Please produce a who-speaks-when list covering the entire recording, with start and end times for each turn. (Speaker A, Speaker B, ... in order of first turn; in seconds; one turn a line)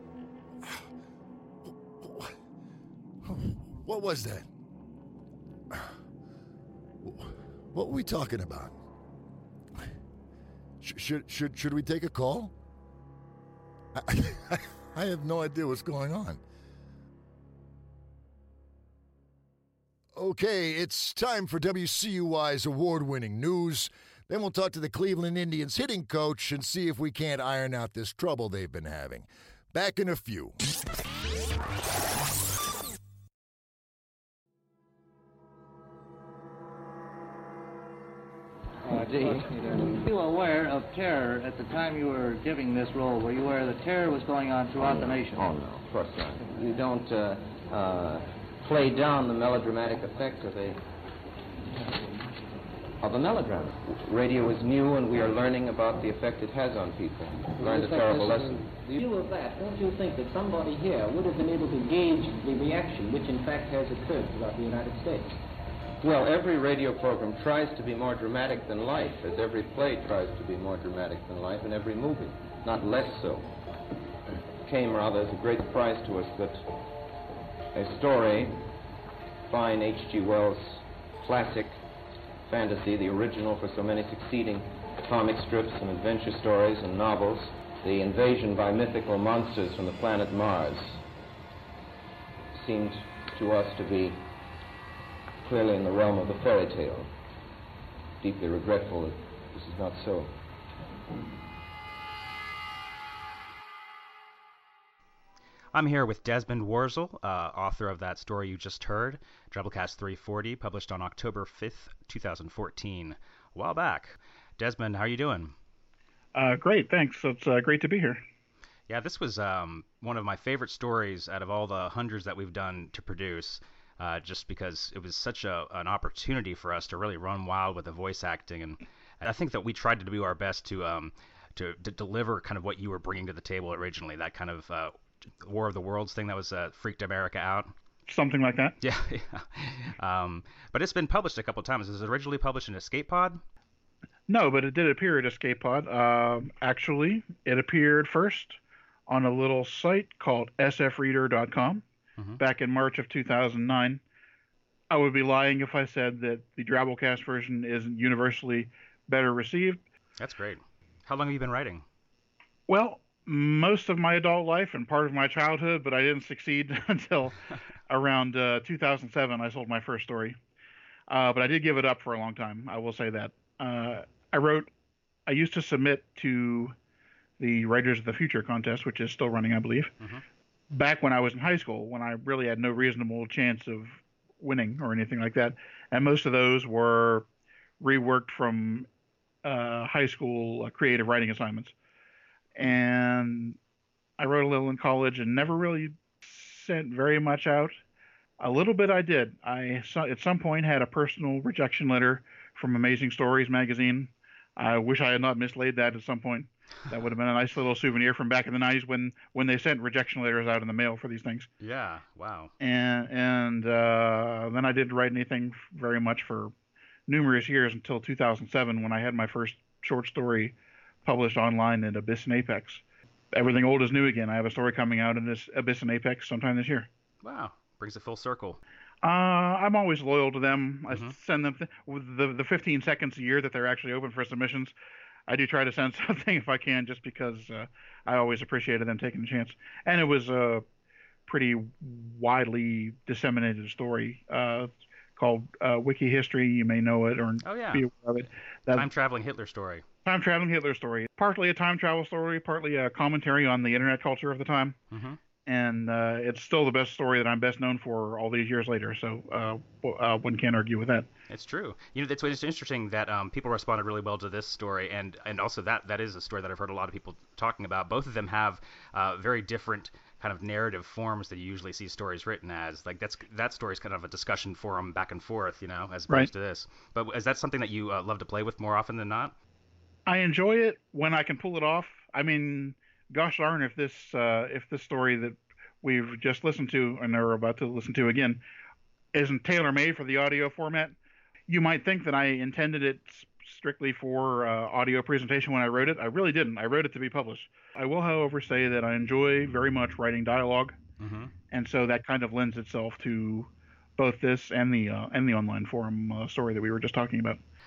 Speaker A: 1.6-2.4
Speaker A: 3.2-4.5
Speaker A: 5.7-6.0
Speaker A: 7.0-8.8
Speaker A: 10.8-12.5
Speaker A: 13.9-16.4
Speaker A: 20.1-30.6
Speaker B: 38.8-45.5
Speaker C: 38.9-39.5
Speaker C: 44.8-50.8
Speaker C: 53.0-59.0
Speaker B: 57.6-65.4
Speaker C: 66.0-73.5
Speaker C: 74.6-76.7
Speaker C: 77.8-78.7
Speaker C: 79.5-81.8
Speaker C: 82.5-91.0
Speaker C: 92.5-94.3
Speaker C: 95.4-97.1
Speaker C: 98.2-100.4
Speaker D: 105.7-115.5
Speaker E: 116.3-118.2
Speaker D: 118.9-137.7
Speaker E: 138.1-138.8
Speaker D: 138.8-143.4
Speaker E: 144.3-151.8
Speaker D: 152.2-152.4
Speaker E: 152.4-154.0
Speaker E: 154.9-159.8
Speaker D: 160.2-161.8
Speaker E: 162.7-167.4
Speaker E: 167.9-170.4
Speaker E: 171.1-174.7
Speaker E: 175.3-176.7
Speaker E: 177.4-179.9
Speaker E: 180.7-187.3
Speaker E: 187.8-188.9
Speaker E: 189.4-191.7
Speaker E: 192.6-193.6
Speaker E: 194.2-197.8
Speaker E: 198.4-211.5
Speaker D: 211.6-212.5
Speaker E: 212.6-216.5
Speaker E: 217.1-222.8
Speaker E: 223.3-226.9
Speaker D: 227.2-228.6
Speaker E: 229.0-234.7
Speaker D: 230.9-231.2
Speaker E: 235.3-240.6
Speaker E: 241.3-248.9
Speaker D: 247.4-247.8
Speaker D: 248.7-249.8
Speaker E: 250.1-254.8
Speaker D: 254.9-255.2
Speaker E: 255.4-261.1
Speaker D: 261.3-279.4
Speaker E: 280.1-288.4
Speaker E: 289.1-290.9
Speaker E: 291.5-300.8
Speaker D: 301.0-301.4
Speaker E: 301.5-307.4